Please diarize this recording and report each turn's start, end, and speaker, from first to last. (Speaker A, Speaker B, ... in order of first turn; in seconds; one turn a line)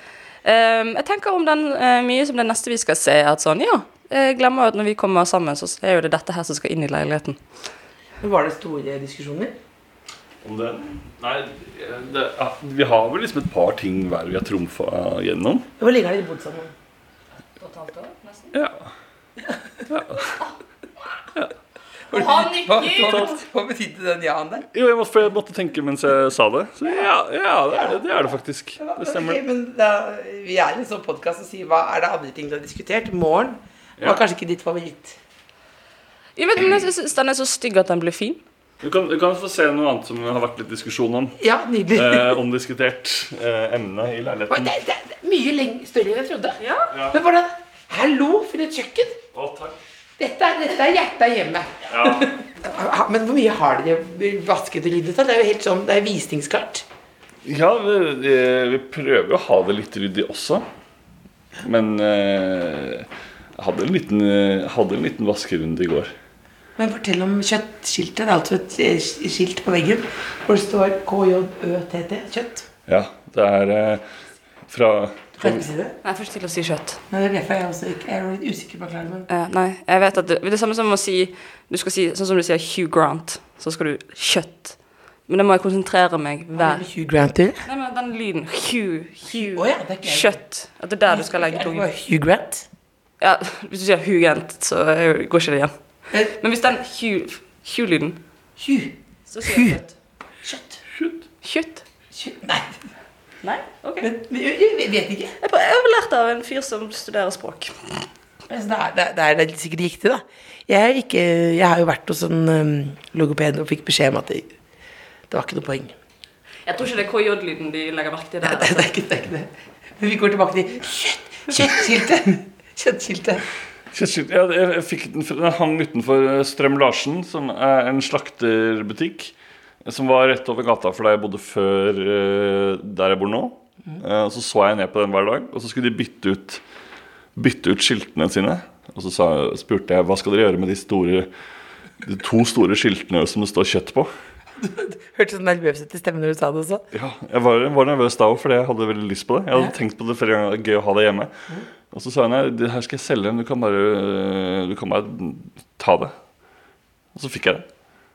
Speaker A: 0.4-7.4
Speaker B: 8.2-9.5
Speaker C: 10.4-15.7
Speaker B: 15.8-16.7
Speaker A: 17.6-18.5
Speaker C: 18.5-18.9
Speaker C: 19.9-20.4
Speaker B: 22.1-24.7
Speaker A: 22.1-23.4
Speaker C: 23.0-23.3
Speaker C: 24.7-29.4
Speaker B: 28.8-35.2
Speaker C: 34.0-34.2
Speaker A: 36.4-38.4
Speaker C: 38.8-41.4
Speaker B: 41.4-42.4
Speaker C: 41.9-44.7
Speaker B: 44.5-49.2
Speaker A: 46.6-46.9
Speaker C: 46.9-47.2
Speaker C: 49.3-49.8
Speaker B: 50.2-56.9
Speaker C: 51.9-52.3
Speaker C: 57.4-60.6
Speaker C: 61.6-66.1
Speaker B: 66.8-72.7
Speaker C: 72.9-74.0
Speaker C: 74.7-75.6
Speaker B: 75.4-75.9
Speaker A: 76.0-77.0
Speaker B: 77.1-79.3
Speaker A: 79.3-84.8
Speaker A: 85.3-86.8
Speaker B: 86.5-87.6
Speaker A: 87.6-91.8
Speaker B: 89.4-90.4
Speaker B: 91.1-92.7
Speaker A: 93.2-95.7
Speaker B: 96.1-96.3
Speaker A: 96.3-98.2
Speaker B: 98.6-99.8
Speaker A: 99.3-99.9
Speaker B: 100.4-100.8
Speaker C: 100.9-101.2
Speaker A: 101.4-101.8
Speaker B: 102.1-102.8
Speaker A: 103.4-104.1
Speaker B: 104.0-105.3
Speaker A: 105.4-107.7
Speaker B: 108.5-114.5
Speaker B: 115.3-115.9
Speaker A: 116.7-118.9
Speaker B: 118.4-123.4
Speaker C: 123.9-136.6
Speaker C: 137.3-141.3
Speaker C: 142.0-144.1
Speaker B: 144.6-146.8
Speaker C: 146.9-151.3
Speaker C: 151.9-156.1
Speaker C: 157.1-157.6